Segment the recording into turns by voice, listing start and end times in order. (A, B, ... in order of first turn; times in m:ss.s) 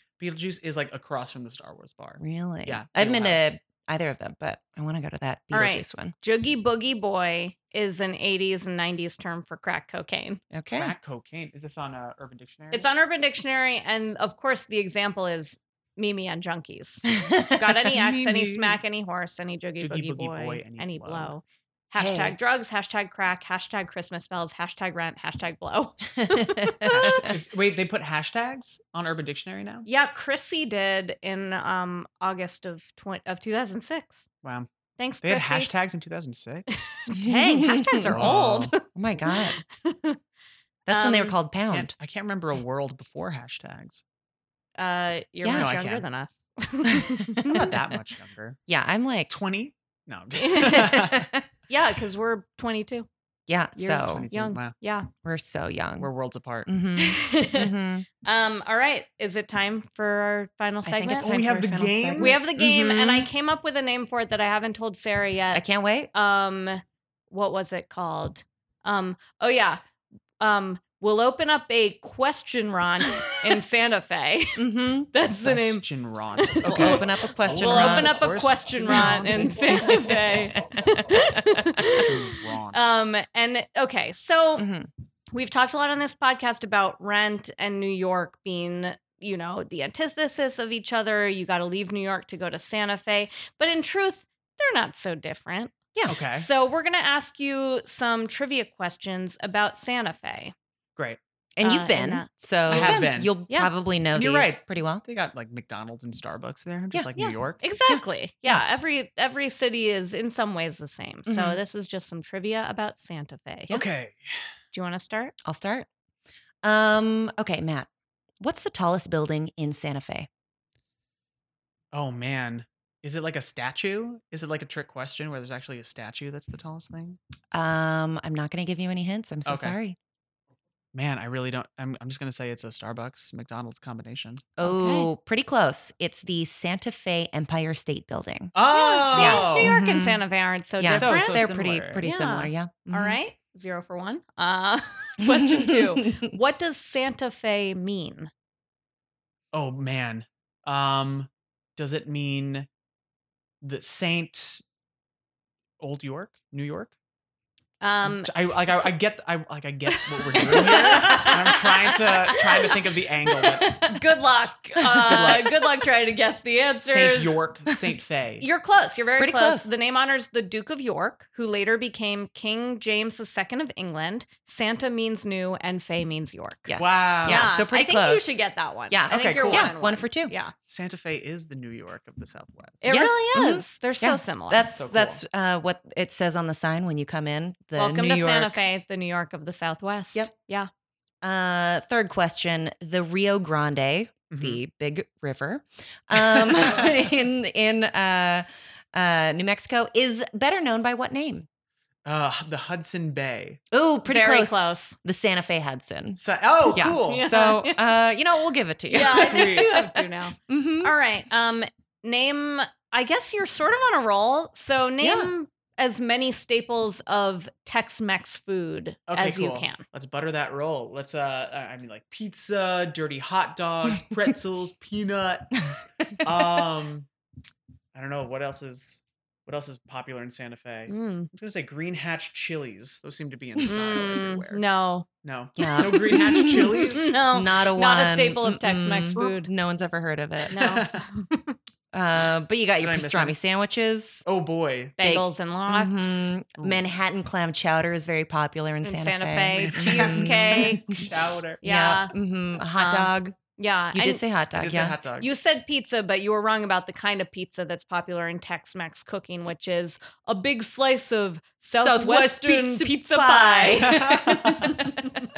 0:00.2-0:03.5 A
0:02.2-0:06.1 B
0:05.5-0:10.4 C
0:10.5-0:10.9 B
0:10.7-0:12.9 A
0:12.7-0:27.1 C
0:17.1-0:17.9 B
0:17.9-0:18.8 A
0:19.8-0:21.3 A
0:22.0-0:22.4 B
0:26.2-0:27.2 B
0:26.9-0:29.9 A
0:29.8-0:34.3 C
0:34.4-0:34.7 A
0:35.0-0:35.7 C
0:35.2-0:36.8 A
0:36.7-0:40.2 C
0:37.1-0:38.3 B
0:38.1-0:38.7 A
0:38.9-0:39.6 B
0:40.9-0:41.9 B
0:40.9-0:41.3 C
0:41.7-0:44.0 A
0:44.8-0:47.8 C
0:45.4-0:45.7 B
0:45.5-0:46.0 A
0:46.9-0:47.6 B
0:47.5-0:48.6 A
0:48.7-0:49.3 B
0:49.3-0:51.2 A
0:50.3-0:51.1 C
0:51.1-0:51.4 B
0:51.7-0:53.1 C
0:53.5-0:54.3 B
0:53.8-0:55.1 C
0:54.0-0:54.7 A
0:55.2-0:56.1 B
0:56.0-0:56.7 A
0:56.6-0:58.0 B
0:57.0-0:57.7 C
0:58.2-1:01.3 C
1:00.8-1:03.3 B
1:01.2-1:02.4 A
1:02.2-1:09.8 C
1:05.5-1:06.1 B
1:10.4-1:14.6 C
1:14.6-1:15.1 B
1:15.1-1:15.8 C
1:15.3-1:19.5 A
1:16.4-1:24.6 C
1:16.6-1:18.2 B
1:18.8-1:22.0 B
1:21.8-1:22.9 A
1:24.6-1:24.9 B
1:25.3-1:35.8 C
1:36.1-1:36.5 A
1:36.3-1:40.5 C
1:41.6-1:45.0 B
1:41.6-1:43.7 C
1:42.7-1:43.4 A
1:44.1-1:47.6 A
1:47.2-1:53.7 C
1:47.8-1:48.6 B
1:51.2-1:51.6 B
1:53.7-1:54.2 A
1:54.7-1:55.3 C
1:55.4-1:55.9 B
1:56.6-1:57.9 B
1:58.4-2:00.3 B
2:01.9-2:07.2 A
2:07.5-2:10.0 B
2:09.4-2:09.8 A
2:10.9-2:14.4 A
2:14.6-2:18.5 B
2:14.6-2:15.1 C
2:18.5-2:19.7 A
2:18.7-2:21.5 C
2:19.1-2:20.2 B
2:20.8-2:23.2 B
2:20.9-2:22.0 A
2:22.0-2:28.3 C
2:25.2-2:26.2 B
2:29.5-2:32.7 A
2:33.6-2:34.6 A
2:35.8-2:36.9 A
2:37.8-2:38.8 C
2:38.0-2:43.6 A
2:39.9-2:42.8 C
2:40.6-2:41.4 B
2:43.6-2:44.0 B
2:43.6-2:47.4 C
2:44.9-2:45.5 B
2:45.0-2:45.5 A
2:46.8-2:48.4 A
2:48.4-3:00.5 C
2:49.2-2:49.7 B
2:56.6-3:00.3 B
2:56.8-2:57.5 A
2:59.1-2:59.7 A
3:00.7-3:02.8 A
3:02.8-3:04.7 C
3:02.8-3:08.6 B
3:04.7-3:05.2 A
3:07.8-3:10.7 C
3:11.2-3:21.5 B
3:14.3-3:14.6 A
3:16.1-3:17.0 A
3:22.0-3:23.6 A
3:23.7-3:30.9 B
3:24.1-3:25.0 C
3:26.2-3:27.3 A
3:27.0-3:27.8 C
3:28.9-3:39.8 C
3:28.9-3:29.7 A
3:35.0-3:35.3 B
3:39.1-3:47.1 A
3:45.6-3:46.4 B
3:47.9-3:54.6 A
3:50.9-3:51.3 C
3:53.6-3:55.1 C
3:55.2-3:57.1 A
3:55.6-3:56.8 B
3:56.8-3:59.5 C
3:57.3-4:00.6 B
4:00.5-4:01.0 A
4:00.5-4:01.3 C
4:01.9-4:04.2 B
4:02.8-4:03.4 A
4:04.2-4:04.9 A
4:05.0-4:06.4 C
4:05.0-4:10.9 B
4:06.6-4:06.8 A
4:08.8-4:11.0 C
4:09.6-4:11.6 A
4:11.6-4:12.1 C
4:11.6-4:13.4 B
4:12.7-4:14.2 C
4:13.9-4:15.0 B
4:14.5-4:15.3 A
4:15.2-4:24.0 C
4:21.8-4:25.1 B
4:23.6-4:24.9 A